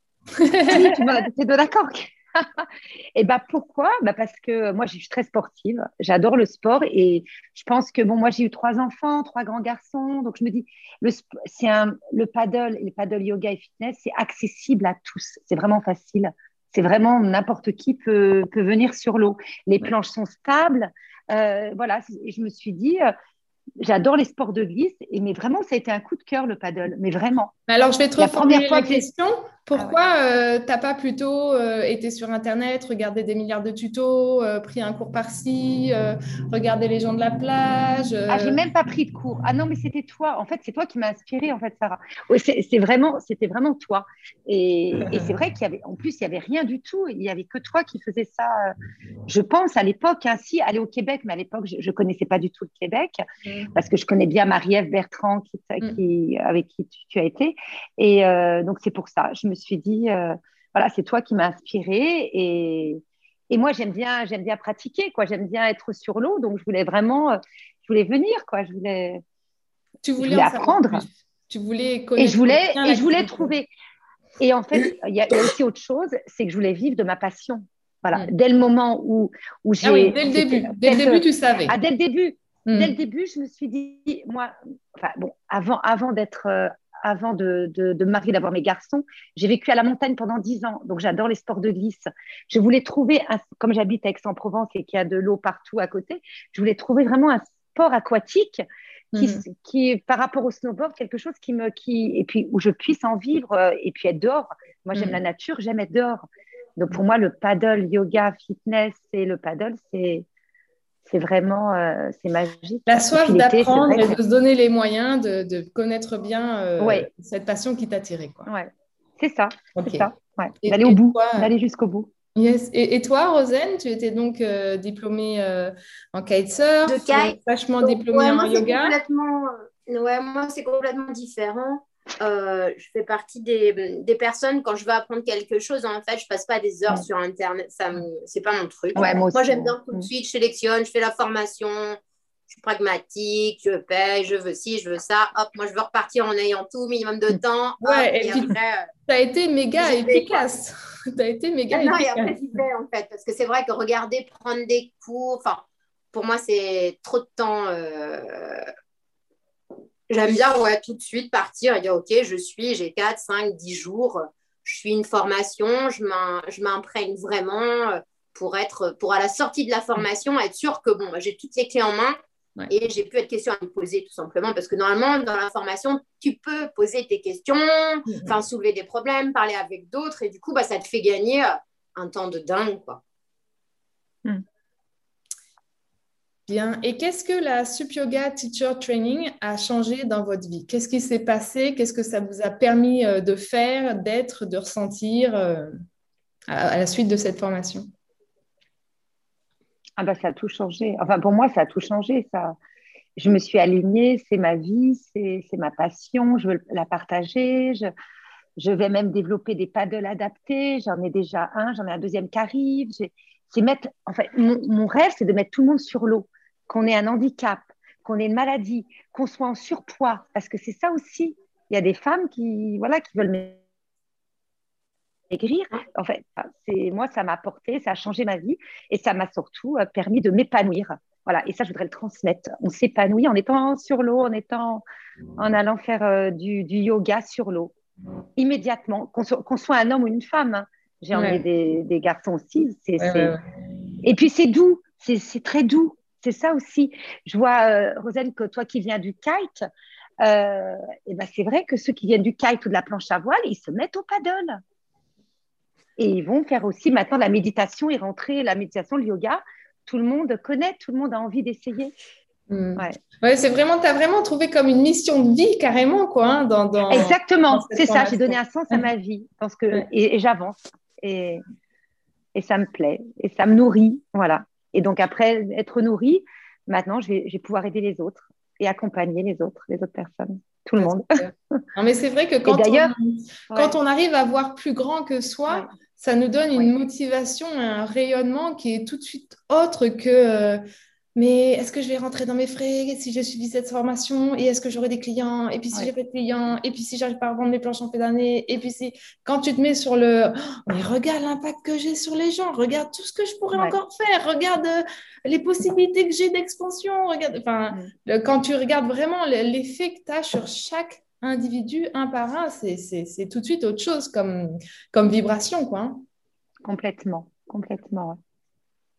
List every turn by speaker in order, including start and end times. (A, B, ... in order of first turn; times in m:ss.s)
0:00.4-0:01.0 A
0:00.7-0:23.1 B
0:23.8-0:27.5 B
0:27.7-0:38.6 A
0:28.2-0:29.1 B
0:38.3-0:48.7 B
0:45.0-0:45.3 A
0:49.3-0:53.2 B
0:53.4-0:53.7 A
0:53.7-1:09.2 B
1:10.0-1:13.5 A
1:10.2-1:11.0 B
1:12.2-1:13.7 B
1:14.4-1:38.6 B
1:19.8-1:21.8 A
1:22.7-1:22.9 A
1:39.1-1:39.4 A
1:39.2-1:46.2 B
1:44.9-1:45.2 A
1:46.8-1:50.3 B
1:51.1-1:54.2 B
1:52.9-1:58.5 A
1:56.8-1:57.1 B
1:58.5-2:02.1 B
1:59.8-2:00.1 A
2:00.6-2:01.5 A
2:02.4-2:09.0 A
2:06.9-2:22.0 C
2:19.0-2:20.1 B
2:22.5-2:28.9 C
2:27.8-2:28.5 A
2:29.1-2:32.3 A
2:29.8-2:30.5 C
2:31.7-2:38.7 C
2:40.1-2:52.2 C
2:52.7-3:03.0 C
2:58.1-2:58.4 A
3:06.5-3:15.8 A
3:16.5-3:17.9 A
3:20.0-3:22.6 B
3:23.2-3:27.9 B
3:28.6-3:43.6 B
3:45.3-3:54.8 B
3:55.4-3:57.7 B
3:58.4-4:03.4 B
4:01.1-4:01.4 A
4:03.0-4:03.4 A
4:04.0-4:09.7 B
4:10.2-4:14.6 B
4:16.0-4:21.9 B
4:22.5-4:28.9 A
4:26.9-4:31.4 B
4:32.4-4:41.2 B
4:40.8-4:50.6 A
4:42.5-4:43.0 B
4:43.5-4:43.8 B
4:51.2-5:16.0 A
5:16.6-5:18.2 B